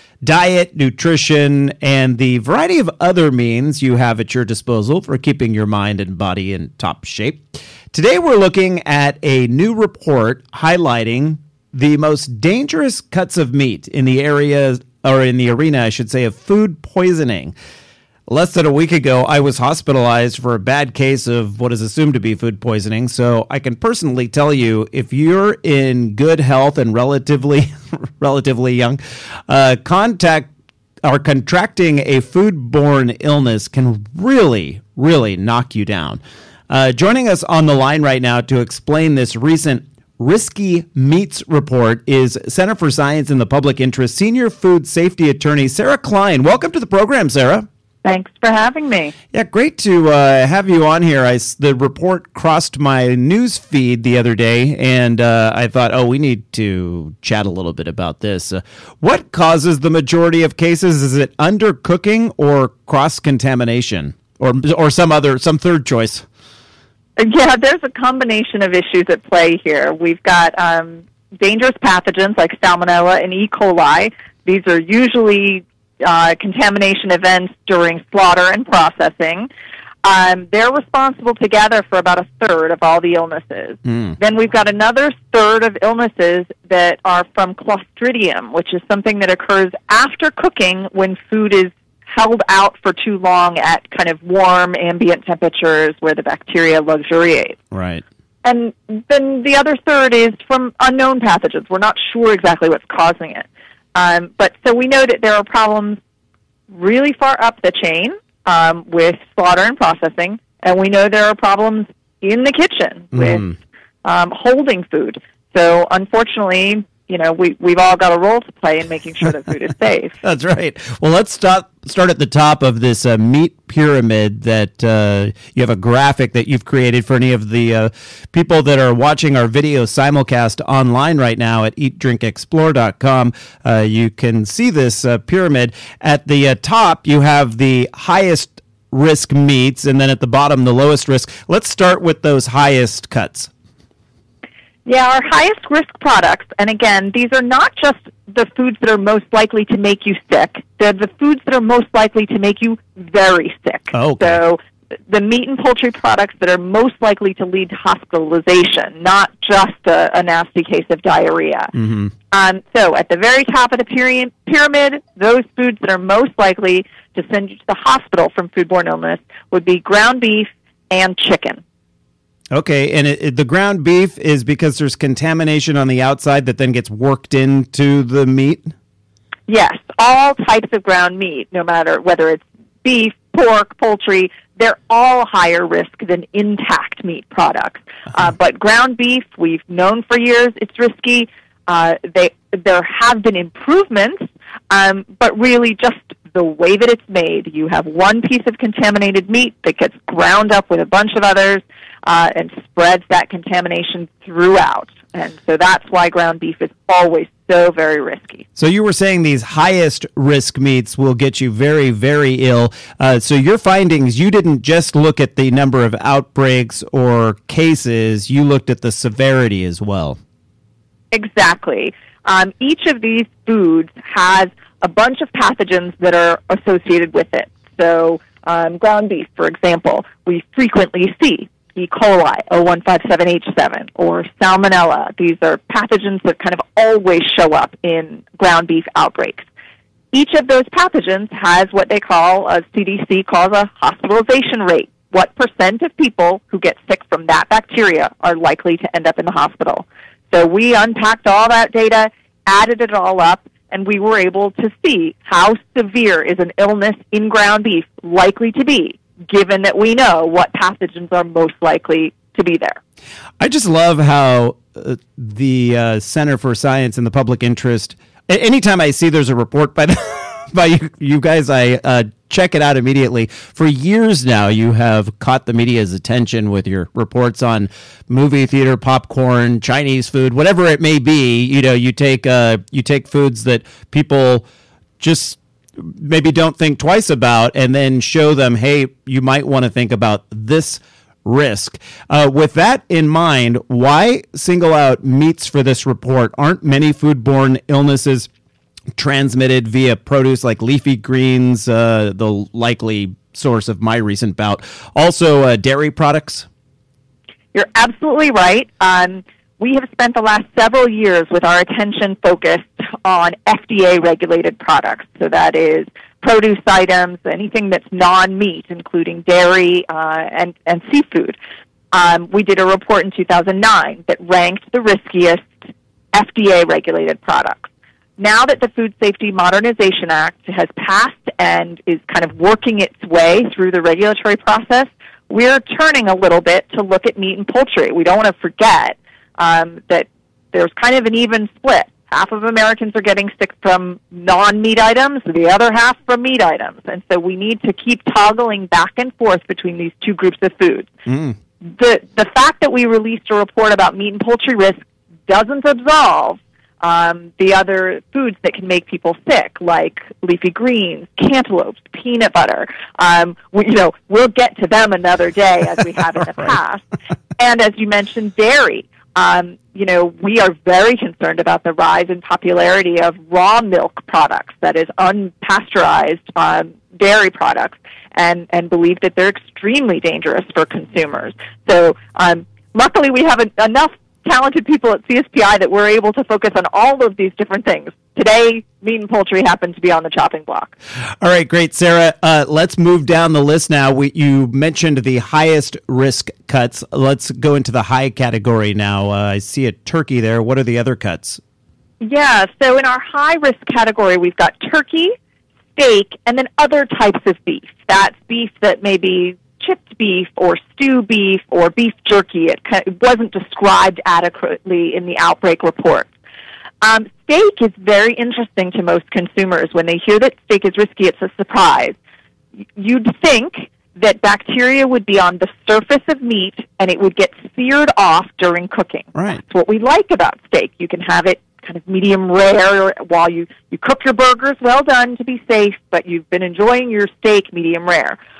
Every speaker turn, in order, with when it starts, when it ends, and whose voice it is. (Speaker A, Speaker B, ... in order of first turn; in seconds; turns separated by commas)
Speaker A: 0.2-17.5, Speaker A: 18.3-30.5, Speaker A: 31.0-47.6, Speaker B: 48.0-49.1, Speaker A: 49.3-66.2, Speaker B: 67.2-79.5, Speaker B: 80.0-97.6, Speaker A: 97.7-98.0, Speaker B: 98.4-106.0, Speaker B: 106.7-113.4, Speaker A: 113.1-113.5, Speaker B: 114.0-120.1, Speaker A: 120.2-143.5, Speaker B: 144.8-161.7, Speaker A: 153.9-154.4, Speaker A: 161.8-162.1, Speaker B: 162.3-171.6, Speaker A: 172.5-178.7, Speaker B: 179.5-208.4, Speaker A: 208.6-220.2, Speaker B: 221.1-239.5, Speaker B: 240.1-262.8, Speaker A: 263.4-284.4, Speaker A: 285.0-298.3, Speaker A: 298.9-306.5, Speaker B: 307.5-321.4, Speaker B: 321.9-325.6, Speaker B: 326.1-350.9, Speaker A: 351.1-351.4, Speaker B: 351.6-366.8, Speaker B: 367.4-390.7, Speaker A: 391.2-401.4, Speaker B: 402.0-405.1, Speaker B: 405.7-416.1, Speaker B: 416.8-421.9, Speaker B: 422.8-438.2, Speaker A: 429.1-429.4